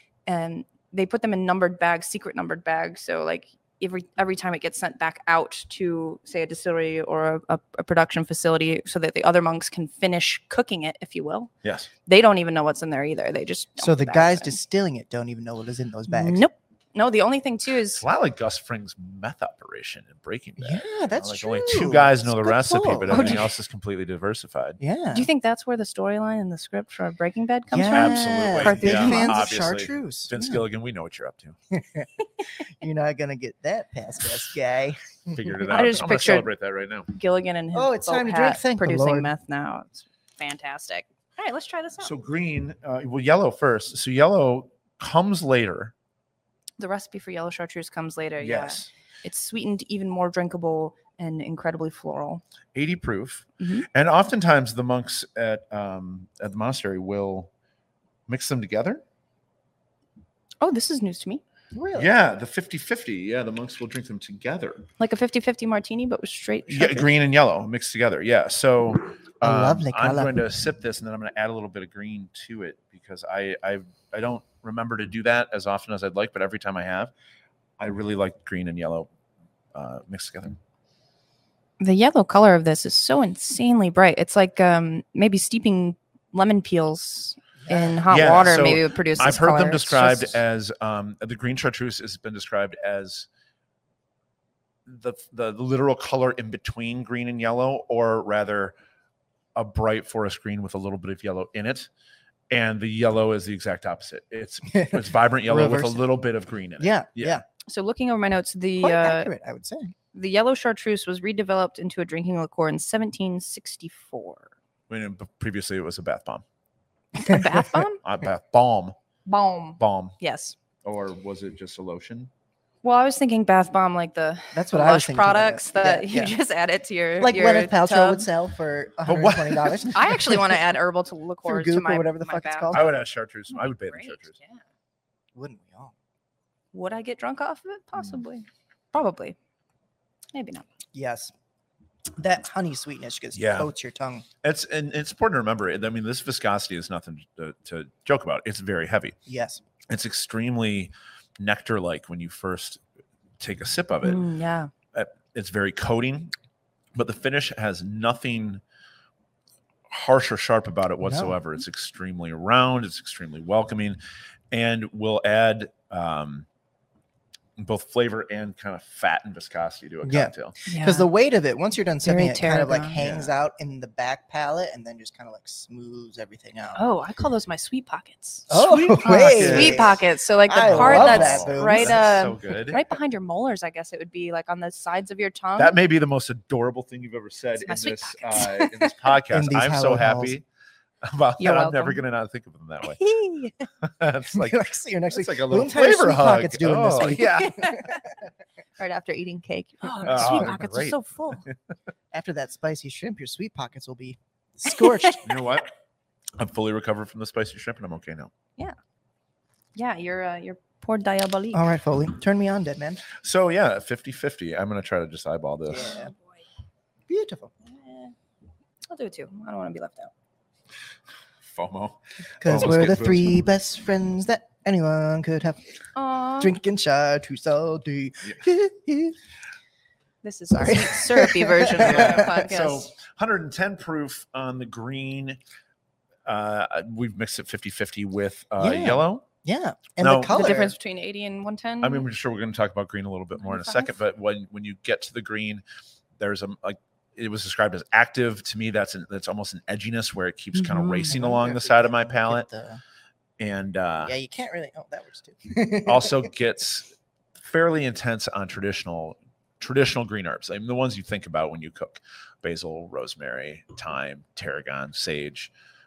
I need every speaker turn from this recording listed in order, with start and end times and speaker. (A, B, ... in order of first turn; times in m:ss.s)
0:00.3-0:11.5 A
0:11.6-0:11.9 B
0:12.1-0:14.6 A
0:13.8-0:16.4 C
0:16.1-0:18.0 A
0:18.0-0:24.8 B
0:20.6-0:23.5 C
0:23.1-0:23.4 A
0:24.8-0:25.3 C
0:25.1-0:29.5 A
0:27.7-0:30.6 C
0:27.9-0:31.6 B
0:31.7-0:35.6 C
0:35.3-0:37.1 B
0:35.7-0:36.5 A
0:37.1-0:42.1 A
0:37.7-0:39.3 C
0:42.0-0:45.9 B
0:46.8-0:52.4 A
0:48.4-0:48.9 B
0:52.8-0:57.5 B
0:53.6-0:53.9 A
0:58.3-0:59.0 B
1:00.6-1:01.4 A
1:01.7-1:02.1 C
1:02.0-1:04.9 B
1:05.0-1:07.1 A
1:06.7-1:17.1 B
1:09.4-1:10.3 C
1:17.8-1:19.1 B
1:19.7-1:20.6 B
1:21.8-1:30.4 A
1:27.7-1:28.0 C
1:28.1-1:33.3 B
1:34.9-1:38.7 B
1:39.6-1:41.9 B
1:42.5-1:47.4 B
1:44.7-1:46.0 C
1:46.8-1:47.4 C
1:47.7-1:49.3 A
1:48.8-1:49.9 C
1:50.1-1:54.5 A
1:54.9-1:56.4 B
1:57.2-1:58.0 A
1:58.0-1:59.0 B
1:59.3-2:00.6 A
1:59.8-2:00.2 B
2:00.8-2:02.3 B
2:02.8-2:08.3 A
2:04.5-2:06.3 C
2:07.2-2:10.4 C
2:09.1-2:10.0 B
2:09.9-2:12.8 A
2:11.4-2:12.9 C
2:12.7-2:14.3 B
2:13.5-2:14.6 A
2:15.4-2:15.9 C
2:16.7-2:19.4 A
2:20.3-2:20.6 A
2:20.9-2:21.3 C
2:22.2-2:24.3 C
2:23.3-2:23.7 B
2:24.4-2:29.2 B
2:29.3-2:29.6 C
2:29.9-2:32.8 B
2:33.4-2:34.2 B
2:34.0-2:34.7 A
2:34.9-2:36.3 B
2:37.0-2:38.6 B
2:39.9-2:44.0 B
2:41.0-2:41.4 C
2:44.5-2:46.5 B
2:47.6-2:50.6 B
2:50.0-2:56.8 C
2:50.7-2:51.1 A
2:52.0-2:53.0 A
2:53.0-2:53.3 B
2:56.8-3:05.8 A
2:58.5-3:02.1 C
2:59.3-3:00.0 B
3:00.6-3:02.8 B
3:05.6-3:10.4 B
3:07.6-3:09.1 A
3:09.3-3:10.4 C
3:11.0-3:13.0 B
3:11.4-3:12.0 A
3:12.9-3:13.6 A
3:13.8-3:17.6 B
3:14.3-3:18.0 C
3:17.2-3:18.0 A
3:18.8-3:21.5 A
3:20.0-3:21.0 B
3:22.1-3:25.3 C
3:24.7-3:25.2 A
3:25.2-3:25.7 B
3:26.4-3:28.3 B
3:29.8-3:31.6 A
3:31.5-3:33.1 C
3:33.2-3:36.0 B
3:35.7-3:36.1 C
3:35.8-3:36.4 A
3:37.1-3:37.5 C
3:37.7-3:38.2 A
3:38.9-3:40.1 A
3:41.5-3:43.4 B
3:42.4-3:45.6 C
3:46.0-3:46.6 A
3:46.4-3:49.2 C
3:50.2-3:52.9 A
3:50.6-3:52.4 C
3:51.8-3:55.4 B
3:56.2-3:59.2 B
3:58.6-4:00.7 C
4:00.0-4:00.6 B
4:00.3-4:02.0 A
4:01.8-4:05.6 B
4:03.4-4:04.0 A
4:06.2-4:12.5 B
4:10.6-4:11.2 A
4:11.1-4:12.8 C
4:13.4-4:14.1 B
4:14.0-4:16.2 C
4:15.9-4:16.9 B
4:17.4-4:25.5 B